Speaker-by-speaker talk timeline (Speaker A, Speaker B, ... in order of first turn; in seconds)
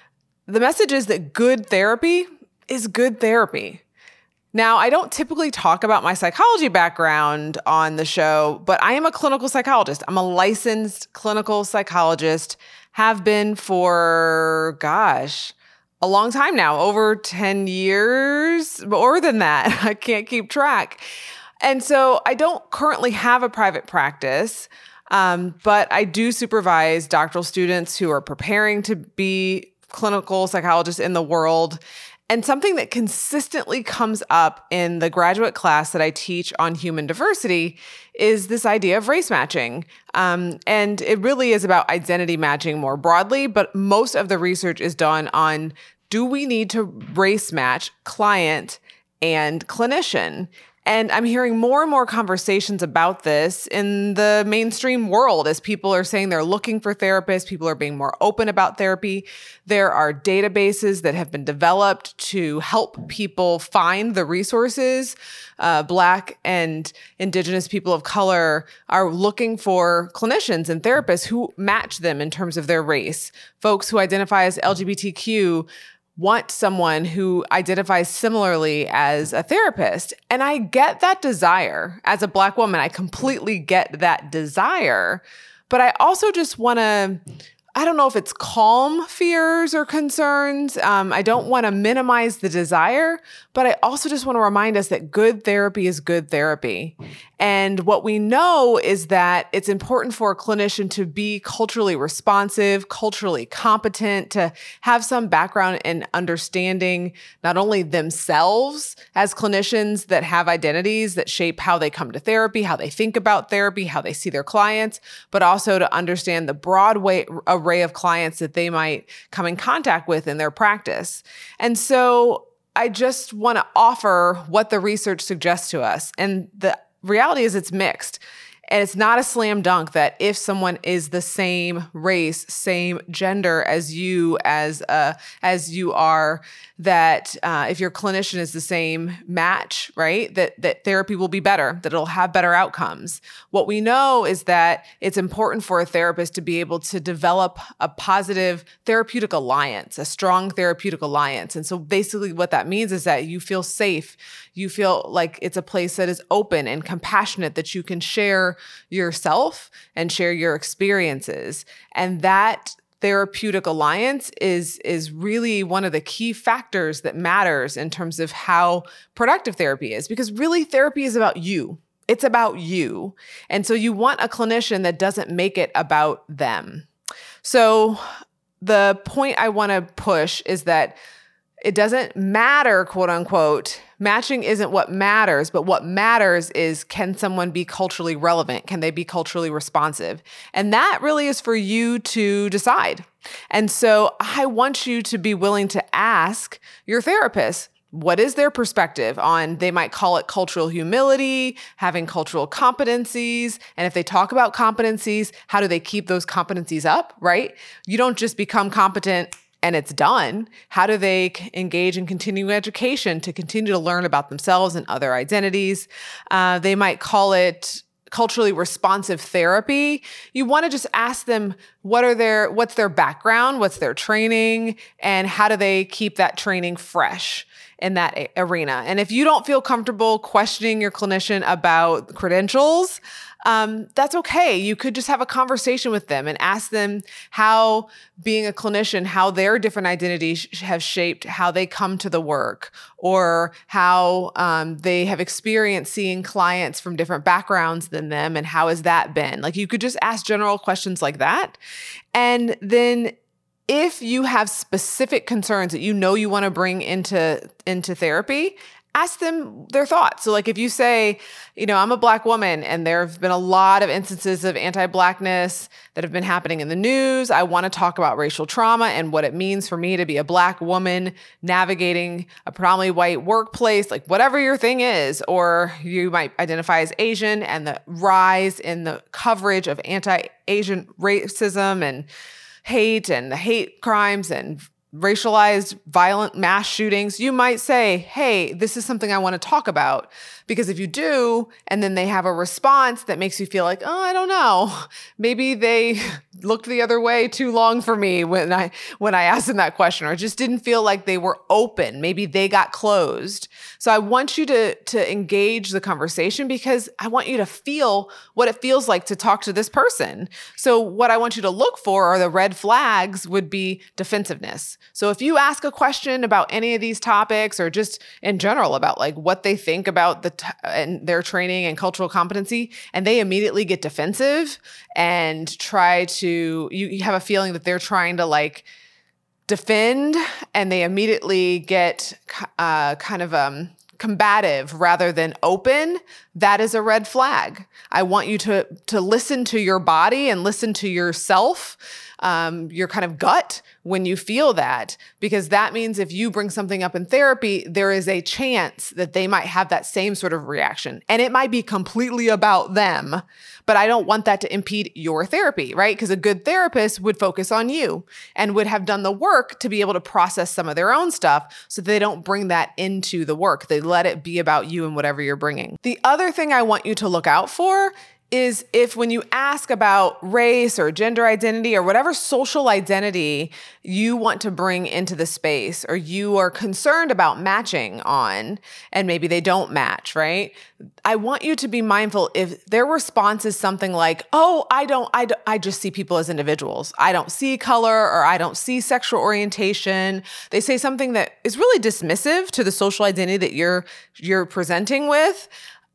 Speaker A: 0.5-3.8, 4.5-21.0, 21.6-87.2, 87.8-176.9, 177.4-178.0, 178.6-181.0, 181.6-251.6, 252.1-253.1, 253.7-282.1, 282.6-328.7, 329.5-395.5